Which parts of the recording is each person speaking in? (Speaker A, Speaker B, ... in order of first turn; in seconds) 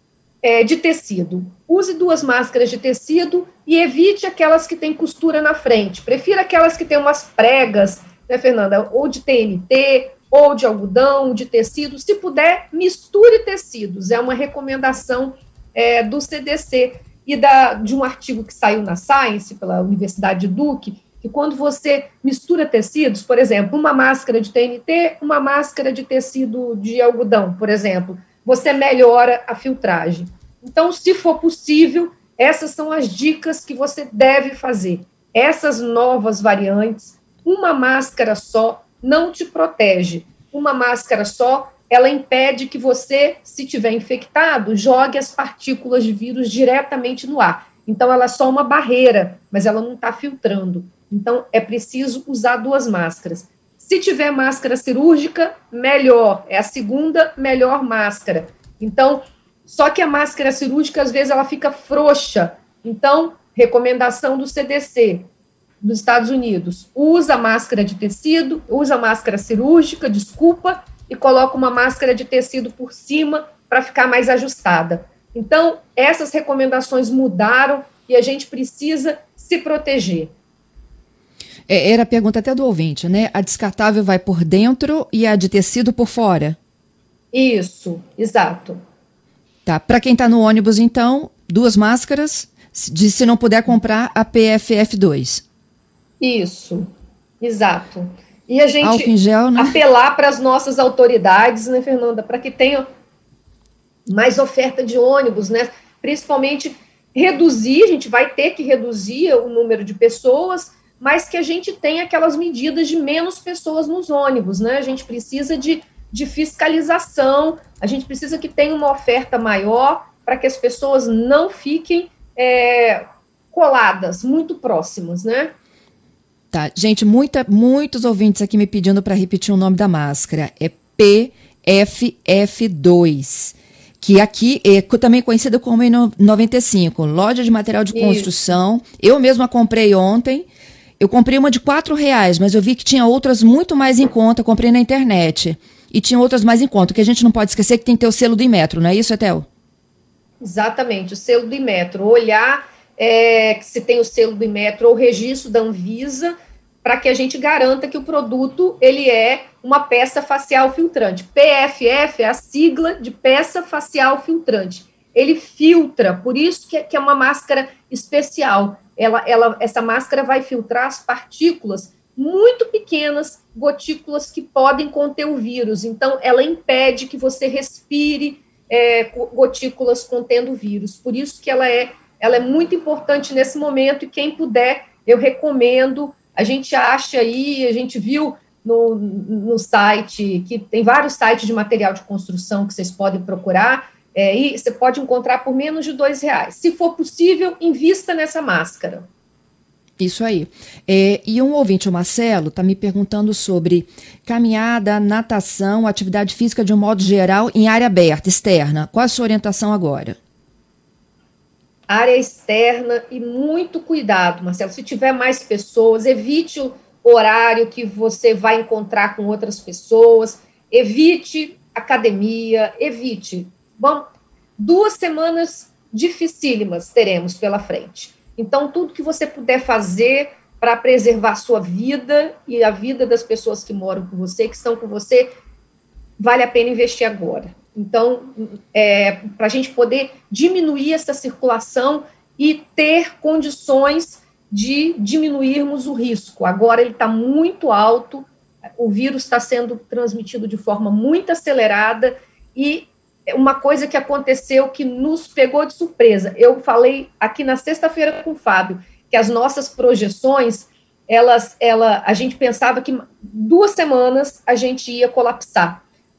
Speaker A: 0.4-65.3, 65.8-80.3, 87.3-88.8, 96.2-96.9, 97.4-102.9, 104.1-125.5, 137.9-138.4, 150.4-199.1, 211.9-224.1, 224.6-235.3, 236.2-248.3, 248.8-265.8
Speaker B: 81.7-86.6, 89.7-95.4, 98.8-99.8, 126.5-140.5, 141.0-149.5, 200.0-210.2